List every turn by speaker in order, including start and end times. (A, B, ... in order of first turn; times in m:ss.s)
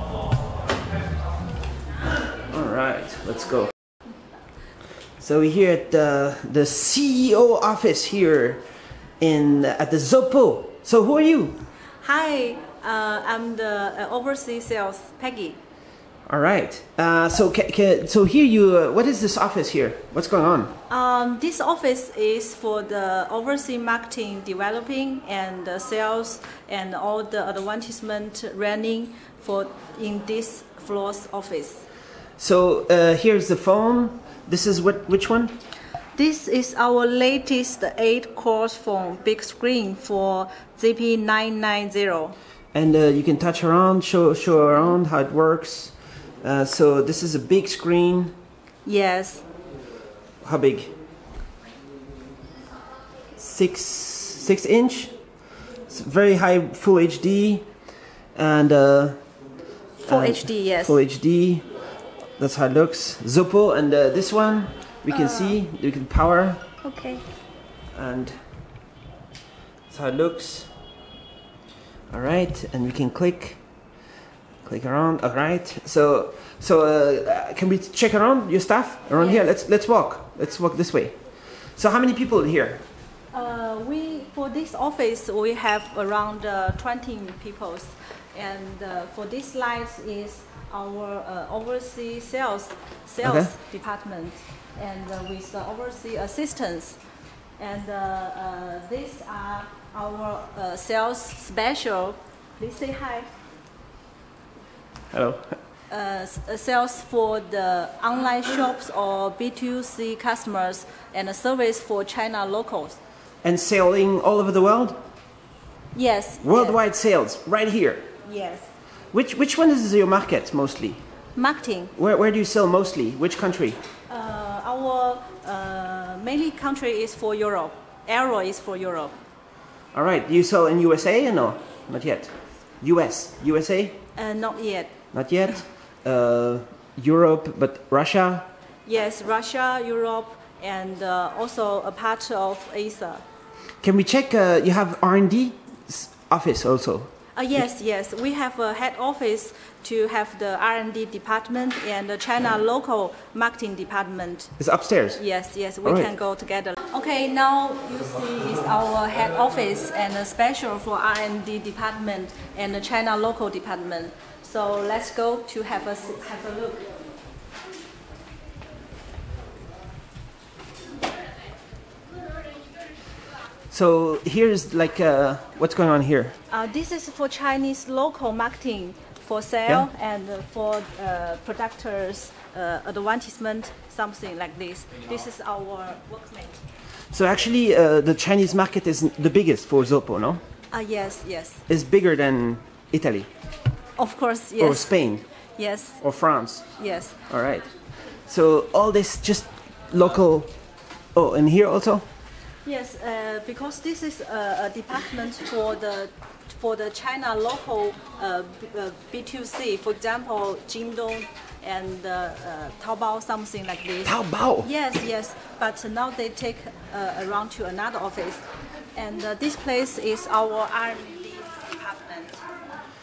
0:02.4-0:03.7 A
0:05.2-0:08.6 A
0:09.2-0:11.6 A
0:12.0-0:15.6 B
0:16.3-0:20.8 A
0:20.9-0:31.8 B
0:32.4-0:35.6 A
0:36.2-0:42.4 B
0:42.7-0:48.3 A
0:48.8-0:49.4 B
0:50.4-0:50.9 A
0:53.4-0:59.5 A
1:00.0-1:01.7 A
1:00.0-1:01.0 B
1:02.4-1:06.7 A
1:05.1-1:05.6 B
1:07.9-1:08.4 A
1:09.9-1:10.7 A
1:12.1-1:13.9 A
1:14.6-1:22.8 A
1:19.2-1:19.5 B
1:23.3-1:37.0 B
1:33.2-1:33.5 A
1:37.6-1:43.3 B
1:45.1-1:45.6 A
1:45.9-1:53.0 B
1:53.4-1:55.0 A
1:55.9-1:56.8 B
1:56.4-1:58.1 A
1:58.2-1:58.7 B
1:59.1-2:01.0 A
2:01.3-2:01.9 B
2:01.9-2:03.8 A
2:04.1-2:09.2 B
2:09.9-2:14.0 A
2:14.2-2:15.0 B
2:15.1-2:18.5 A
2:18.9-2:23.2 B
2:23.8-2:27.1 A
2:27.3-2:46.9 B
2:34.6-2:35.2 A
2:35.8-2:36.1 A
2:53.7-2:56.4 A
2:56.5-3:06.6 B
3:07.1-3:10.4 A
3:10.7-3:11.6 B
3:11.7-3:13.3 A
3:14.0-3:14.9 B
3:14.6-3:15.2 A
3:15.6-3:16.0 B
3:16.0-3:20.5 A
3:16.8-3:17.2 B
3:21.1-3:22.0 A
3:22.6-3:38.4 B
3:34.0-3:34.7 A
3:38.9-3:42.4 B